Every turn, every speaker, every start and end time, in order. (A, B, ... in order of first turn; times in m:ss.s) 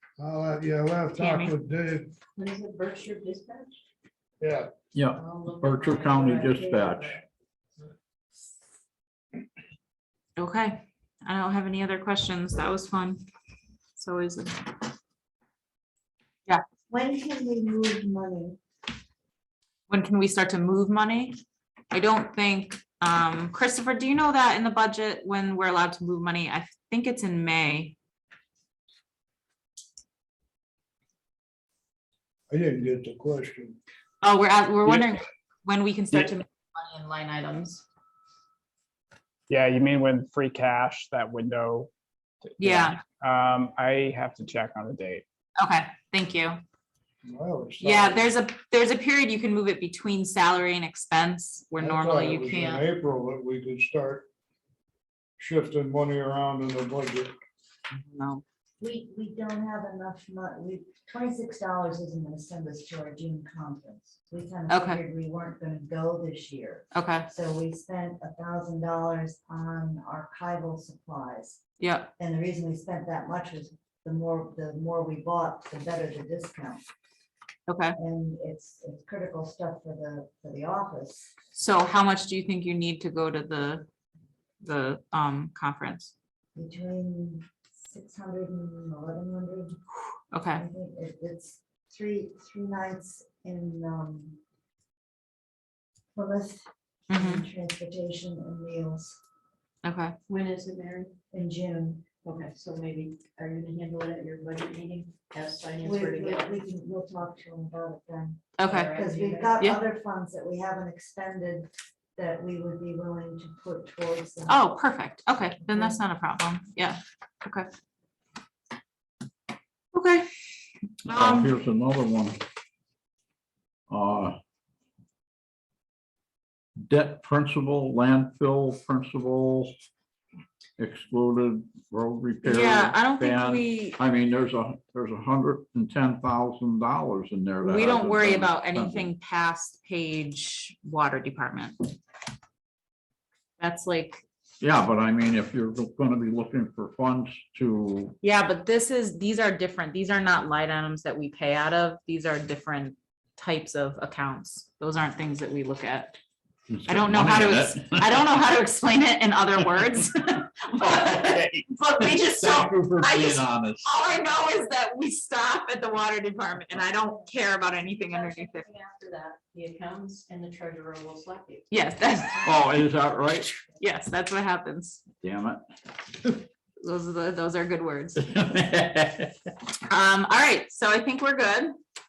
0:00.2-0:02.1 A
0:01.2-0:01.5 B
0:02.4-0:03.8 C
0:04.4-0:04.7 A
0:04.9-0:07.2 D
0:05.1-0:07.2 C
0:10.4-0:13.2 B
0:14.0-0:14.7 B
0:16.9-0:18.6 E
0:19.9-0:21.4 B
0:21.9-0:28.0 B
0:32.5-0:33.8 A
0:34.2-0:37.8 B
0:39.5-0:41.9 F
0:42.5-0:45.2 F
0:42.6-0:43.0 B
0:45.6-0:46.6 B
0:47.2-0:48.2 A
0:47.8-0:52.8 B
0:51.8-0:54.3 A
0:55.4-0:57.4 A
0:57.9-0:58.4 B
0:58.8-1:11.6 E
1:04.7-1:05.0 B
1:06.9-1:07.3 B
1:11.8-1:12.1 B
1:12.2-1:16.8 E
1:17.7-1:18.0 B
1:17.9-1:21.3 E
1:21.5-1:23.9 B
1:24.6-1:26.1 B
1:26.5-1:29.8 E
1:30.3-1:30.6 B
1:30.5-1:34.4 E
1:36.1-1:39.2 E
1:37.1-1:37.4 B
1:39.8-1:40.2 B
1:40.3-1:41.1 C
1:41.3-1:42.0 E
1:42.2-1:46.6 C
1:45.8-1:54.7 E
1:48.6-1:49.0 B
1:48.6-1:49.6 C
1:54.5-1:57.7 B
1:55.7-1:56.0 E
1:59.9-2:00.3 B
2:01.0-2:01.5 B
2:01.1-2:02.4 D
2:03.9-2:04.4 D
2:06.8-2:09.7 D
2:10.8-2:19.1 D
2:12.4-2:14.0 B
2:17.6-2:21.9 B
2:23.6-2:24.2 B
2:24.6-2:28.2 D
2:28.2-2:36.2 B
2:36.7-2:38.3 D
2:36.9-2:48.6 B
2:40.8-2:43.9 D
2:48.0-2:51.7 C
2:51.7-2:52.6 B
2:52.4-2:53.5 D
2:53.8-2:55.0 B
2:55.2-2:55.6 D
2:56.8-2:58.2 B
2:58.2-2:59.3 D
2:59.9-3:01.7 B